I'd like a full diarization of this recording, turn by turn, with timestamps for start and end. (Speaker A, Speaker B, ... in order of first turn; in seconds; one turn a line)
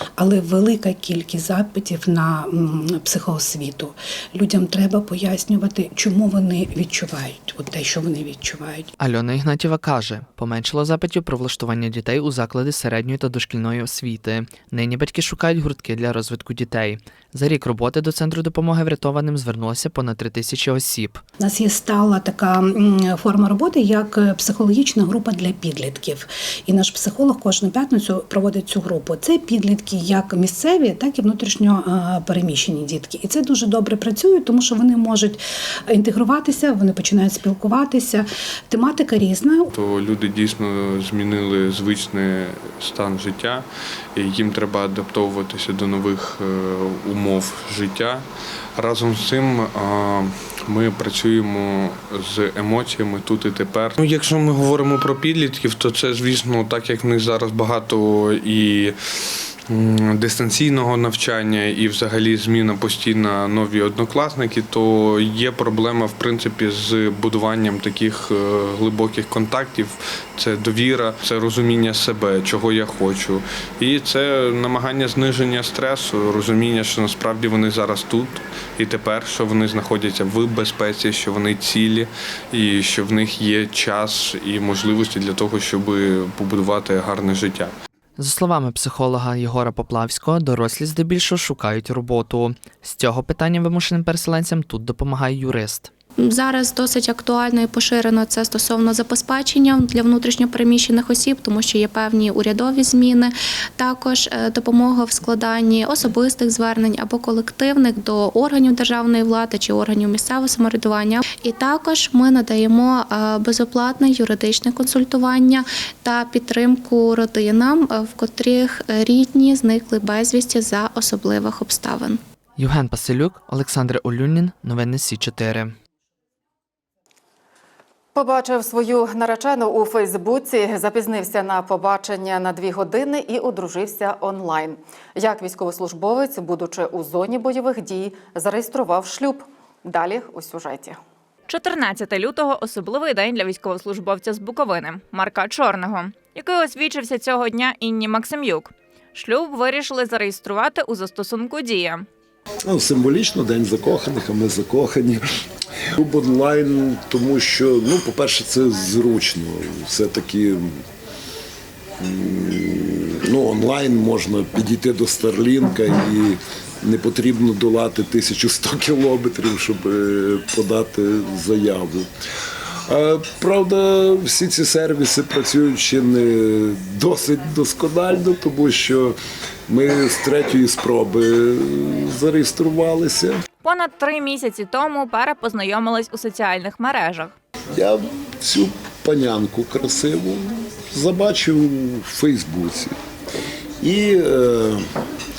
Speaker A: 0.2-8.9
Speaker B: 9.0-21.2
Speaker A: 21.4-39.7
Speaker C: 39.7-59.0
Speaker C: 59.7-87.7
Speaker B: 88.2-95.9
Speaker D: 96.2-122.2
Speaker B: 122.6-125.7
Speaker E: 128.2-141.0
Speaker F: 141.5-152.1
Speaker G: 152.7-155.2
Speaker G: 155.9-160.8
Speaker G: 162.0-172.1
Speaker G: 172.9-179.2
Speaker G: 179.7-183.4
Speaker F: 183.6-187.3
Speaker G: 187.8-192.9
Speaker G: 193.8-194.8